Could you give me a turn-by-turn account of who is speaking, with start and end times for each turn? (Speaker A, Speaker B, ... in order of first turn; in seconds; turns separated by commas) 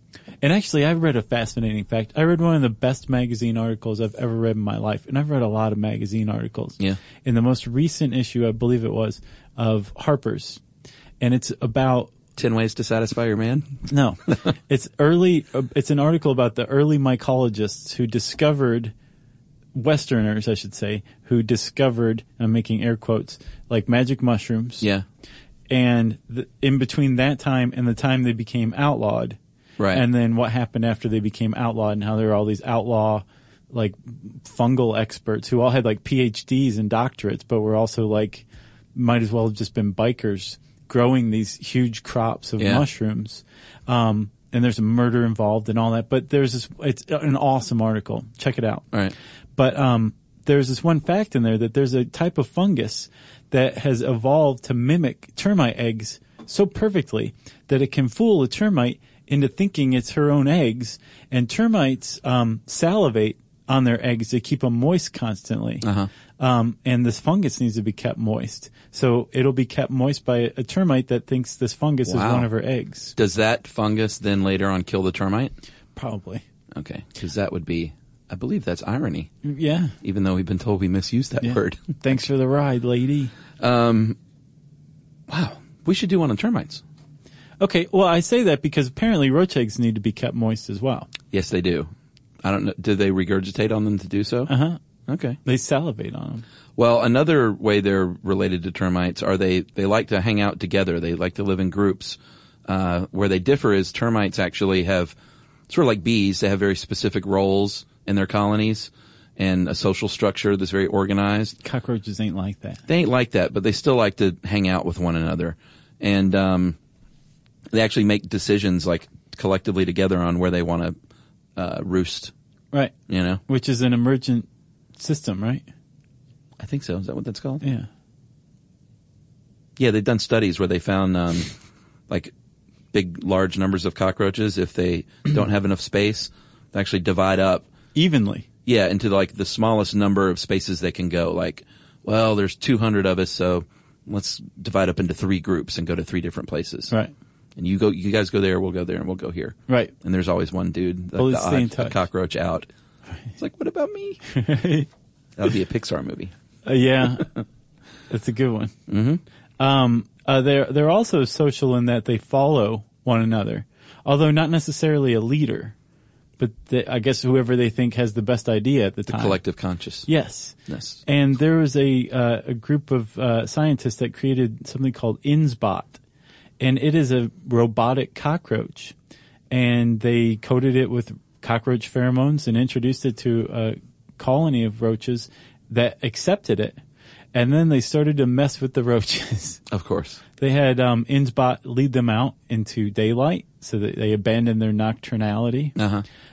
Speaker A: 0.4-10.6, Speaker A: 11.2-12.1, Speaker B: 12.3-13.8, Speaker A: 13.9-18.9, Speaker A: 19.7-24.9, Speaker A: 25.7-29.4, Speaker B: 29.8-30.0, Speaker A: 29.9-48.9, Speaker B: 42.6-42.8, Speaker A: 49.5-65.9, Speaker B: 65.8-66.1, Speaker A: 66.4-73.1, Speaker B: 72.0-72.5, Speaker B: 73.1-75.5, Speaker A: 75.9-76.4, Speaker B: 76.7-79.3, Speaker A: 79.4-80.0, Speaker B: 80.0-82.2, Speaker A: 81.4-83.3, Speaker B: 83.6-84.2, Speaker B: 85.3-86.8, Speaker A: 87.6-91.1, Speaker B: 91.3-91.9, Speaker B: 92.4-94.5, Speaker A: 94.5-94.8, Speaker B: 95.1-95.4, Speaker A: 95.4-96.4, Speaker B: 96.8-105.1, Speaker B: 105.7-111.6, Speaker A: 111.6-112.8, Speaker B: 112.9-116.8, Speaker B: 117.7-120.9, Speaker B: 121.5-122.3, Speaker B: 123.1-123.4, Speaker A: 123.5-125.6, Speaker B: 126.6-127.6, Speaker A: 127.6-127.9, Speaker B: 129.8-131.5, Speaker B: 132.9-137.7, Speaker A: 137.9-138.5, Speaker B: 138.7-146.9, Speaker B: 147.6-152.7, Speaker A: 149.7-149.9, Speaker A: 151.2-152.0, Speaker B: 153.4-154.2, Speaker A: 154.3-154.9, Speaker B: 155.4-156.3, Speaker A: 156.6-157.3, Speaker A: 158.1-158.7, Speaker B: 158.9-159.2, Speaker A: 159.6-165.7, Speaker A: 166.4-169.4, Speaker B: 169.1-170.1, Speaker A: 170.1-176.0, Speaker B: 170.7-171.0, Speaker A: 176.6-178.9, Speaker A: 179.5-186.8, Speaker A: 187.3-189.6, Speaker B: 189.7-190.2, Speaker A: 190.4-195.8, Speaker B: 195.8-196.0